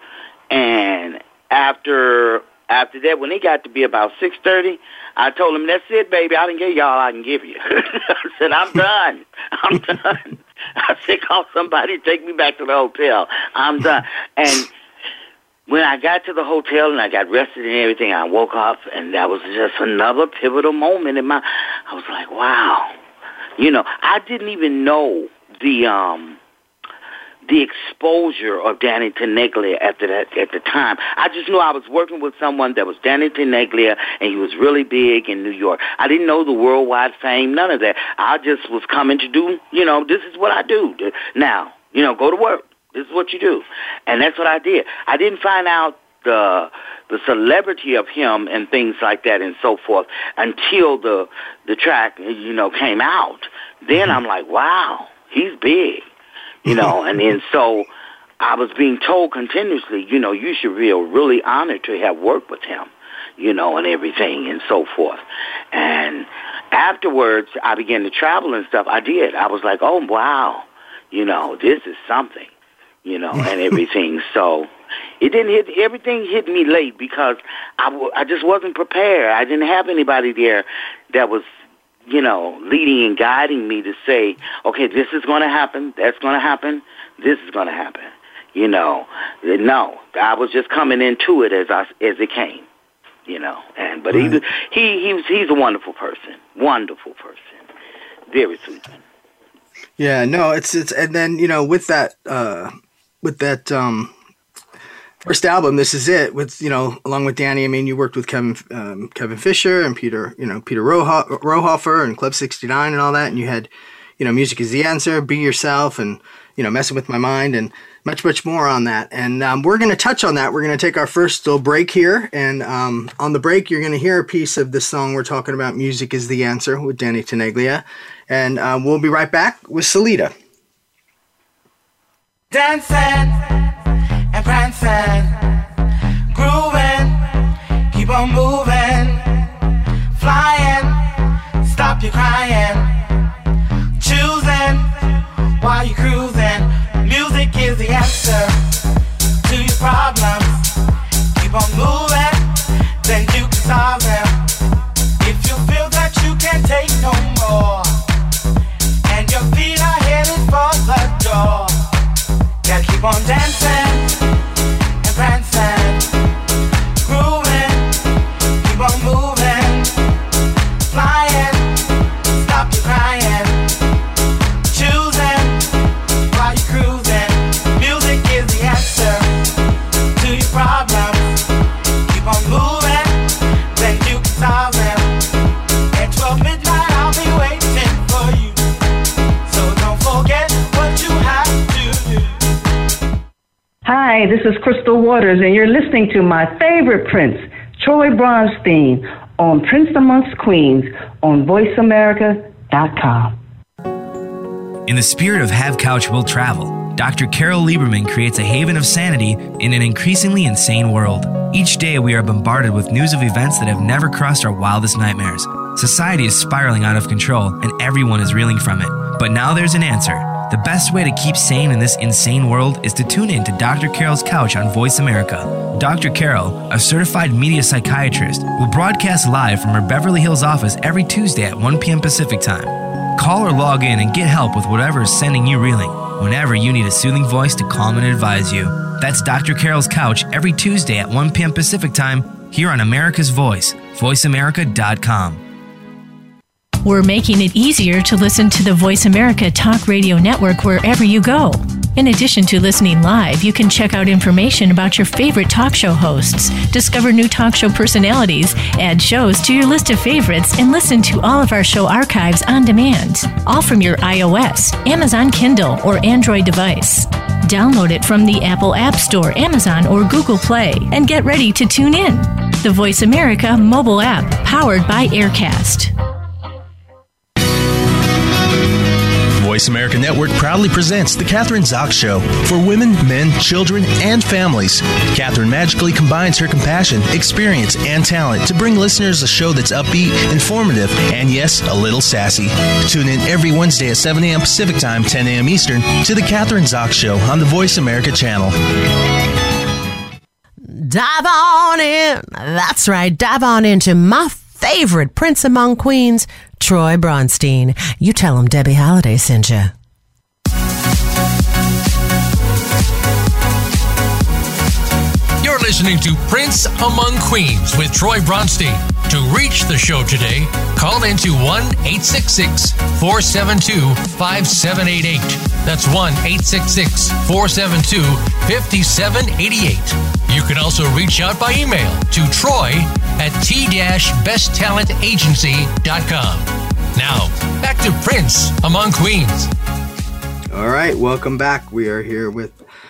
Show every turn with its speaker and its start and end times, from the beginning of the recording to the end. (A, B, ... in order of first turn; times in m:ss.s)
0:00.5-0:14.7 A
0:15.7-0:22.9 A
0:23.6-0:26.4 A
0:27.5-0:56.1 A
0:56.6-1:05.2 A
0:56.7-0:57.0 B
1:05.7-1:12.5 A
1:13.0-1:14.7 A
1:13.4-1:13.7 B
1:15.2-1:21.5 A
1:22.1-1:32.7 A
1:33.3-1:37.6 A
1:34.1-1:34.4 B
1:38.3-1:39.0 A
1:40.0-1:44.1 B
1:45.2-2:10.3 B
2:12.5-2:13.5 C
2:14.3-2:15.4 C
2:16.3-2:17.2 C
2:17.9-2:19.4 C
2:20.2-2:21.0 C
2:21.6-2:22.9 C
2:24.0-2:24.9 C
2:25.6-2:28.6 C
2:29.4-2:30.7 C
2:31.4-2:32.5 C
2:33.0-2:34.4 C
2:35.2-2:38.0 C
2:39.1-2:41.8 C
2:42.6-2:44.1 C
2:45.0-2:46.0 C
2:47.0-2:47.9 C
2:48.6-2:49.9 C
2:50.9-2:51.7 C
2:52.3-2:53.6 C
2:54.7-2:55.6 C
2:56.3-2:59.3 C
3:00.2-3:01.4 C
3:02.1-3:03.2 C
3:03.7-3:05.1 C
3:05.9-3:08.6 C
3:09.5-3:12.3 C
3:13.8-3:23.4 D
3:24.9-4:05.4 E
4:06.8-4:35.9 F
4:39.4-4:58.5 G
5:00.8-5:09.7 H
5:15.4-5:39.5 I
5:40.5-5:42.6 B